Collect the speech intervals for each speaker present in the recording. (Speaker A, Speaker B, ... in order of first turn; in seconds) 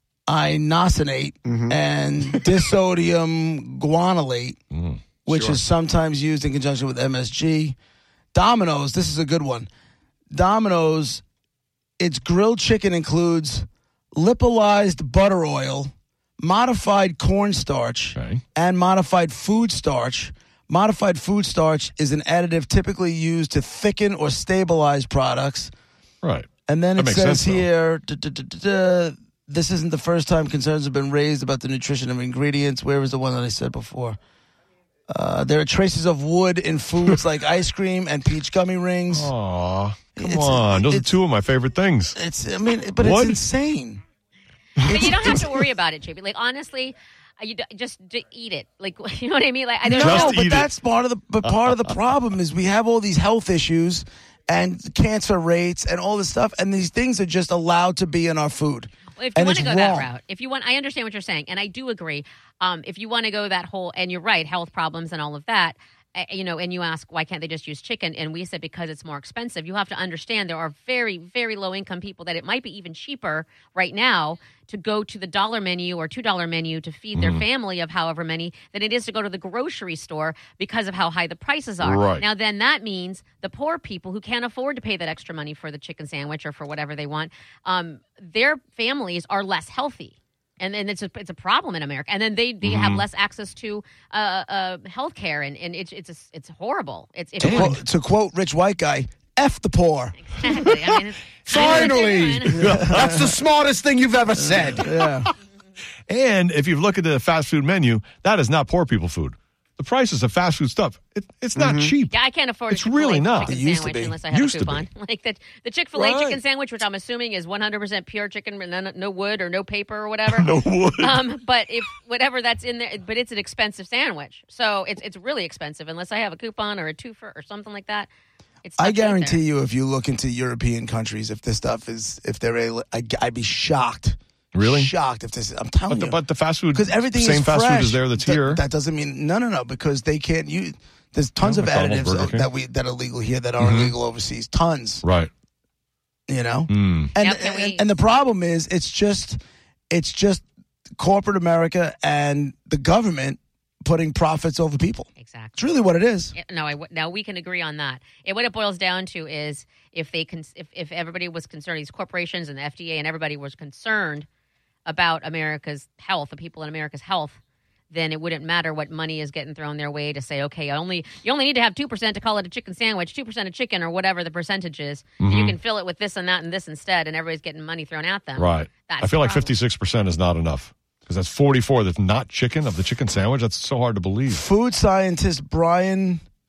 Speaker A: 0.3-4.6, 5.3-7.8, 8.3-9.7, 10.3-11.2, 12.0-25.7, 26.7-34.2, 35.1-39.3, 40.2-41.2, 42.2-44.0, 44.9-45.6, 49.9-60.1, 97.4-100.2, 104.6-105.3, 113.4-114.2, 128.8-136.2, 136.7-145.0, 146.3-149.4, 149.9-150.4, 151.0-156.3, 184.3-186.2
Speaker B: 1.5-1.8, 5.3-5.6, 101.5-104.9, 111.6-111.9
Speaker C: 4.7-5.5, 18.2-18.4, 26.2-27.7, 39.1-42.2, 43.0-43.4, 44.8-45.4, 49.9-50.7, 77.2-77.4, 81.8-82.2, 92.6-93.0, 97.4-97.8, 101.5-101.9, 102.5-103.2, 106.1-112.2, 112.7-113.6, 114.3-114.9, 116.0-116.4, 120.3-121.2, 134.5-134.9, 135.9-138.6, 141.4-142.5, 143.6-143.9, 145.0-145.3, 146.7-147.1, 175.2-175.6, 178.4-184.4
Speaker D: 44.9-50.4, 59.2-97.8, 100.2-102.6, 112.1-128.1, 128.6-129.4, 147.2-147.9, 155.2-155.7, 156.3-164.3, 164.9-167.4, 167.9-179.5